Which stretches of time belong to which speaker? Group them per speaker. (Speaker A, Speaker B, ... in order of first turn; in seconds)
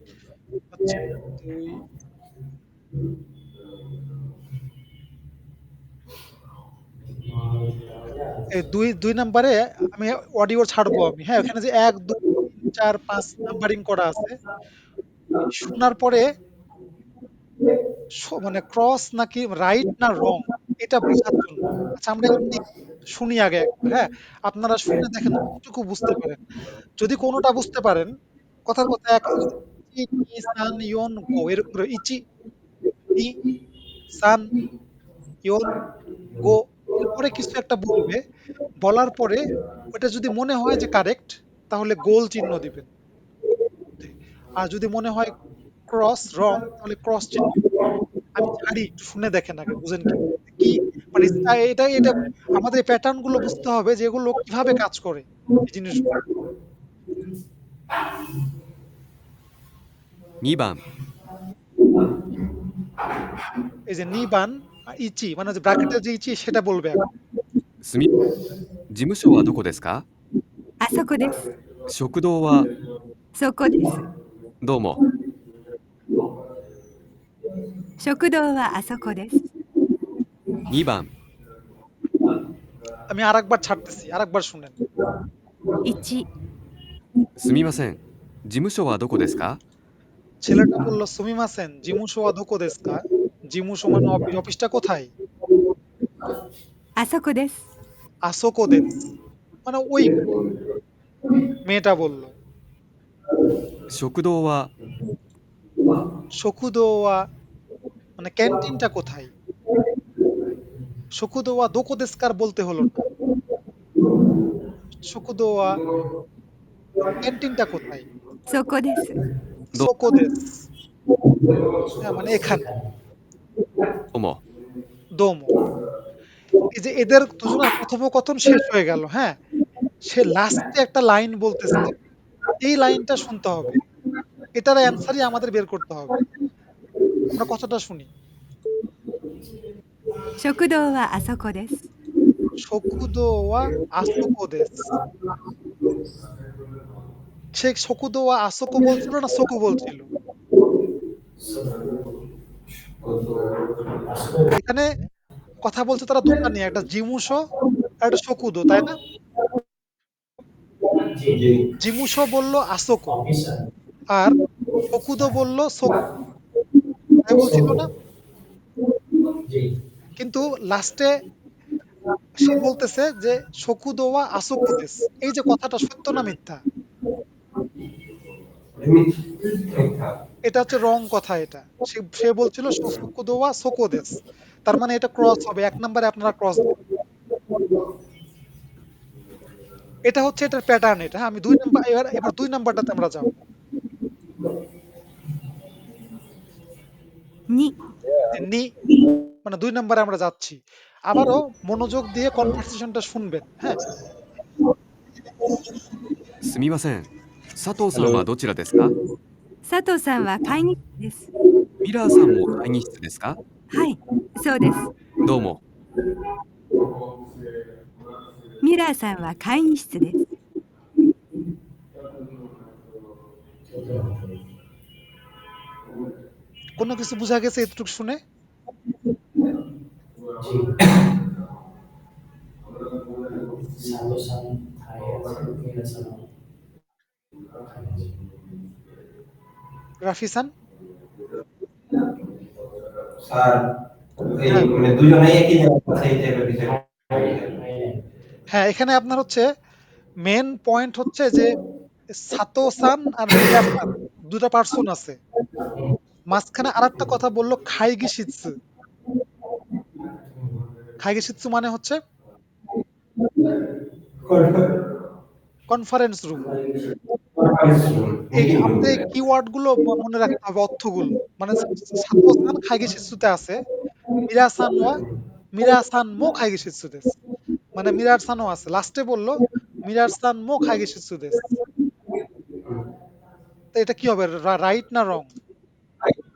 Speaker A: 0.8-1.8, 8.5-14.4, 15.5-16.3, 18.2-26.4, 27.0-28.1, 28.7-32.2, 34.2-34.5, 35.5-35.8, 36.4-38.2, 38.8-42.9, 44.0-45.4, 45.9-47.6, 48.4-56.2, 63.9-67.0, 83.1-84.8, 90.4-95.1, 98.3-99.0, 99.7-100.2, 101.7-102.3, 106.4-107.2, 108.2-109.3, 111.2-113.0, 115.0-115.8, 117.1-118.1, 119.8-120.6, 122.0-122.7, 125.2-125.5, 126.7-129.4, 130.1-131.9, 132.6-133.8, 134.6-136.2, 137.3-138.1, 142.6-144.8, 147.6-150.1, 154.6-154.9, 155.6-157.4, 158.0-159.0, 161.8-163.2, 164.9-166.0, 167.2-167.9, 170.2-171.1, 172.4-176.6, 180.4-186.8, 190.1-193.4, 198.3-198.7, 199.4-203.9, 226.8-228.2, 240.0-240.5, 248.5-249.5, 250.2-251.6, 252.2-255.2, 256.3-258.6, 261.0-262.0, 265.7-266.5, 268.4-273.6, 274.2-275.0, 275.5-277.2, 277.8-281.4, 283.8-285.3
Speaker B: 7.0-8.8, 122.0-123.0, 151.4-151.9, 154.0-154.6, 161.1-161.4, 163.1-163.7, 169.5-169.8, 223.7-224.4, 230.4-230.9, 233.6-236.3, 237.7-238.2, 246.7-248.1, 266.4-266.9
Speaker C: 60.4-60.8, 67.8-68.2, 68.9-70.1, 71.9-72.7, 74.6-75.0, 80.7-81.1, 87.4-89.6, 103.9-104.7, 124.1-124.4, 206.4-208.9, 211.8-213.4, 215.2-215.6
Speaker D: 70.8-71.4, 73.3-74.0, 78.0-79.5, 85.8-86.3, 97.0-97.7, 118.5-119.2, 140.4-141.8, 209.6-211.3, 213.7-214.9, 218.6-220.3
Speaker E: 100.3-100.6, 153.0-153.7, 161.3-161.7, 178.8-180.2, 243.2-243.6, 244.2-247.6, 264.2-264.7, 267.4-269.1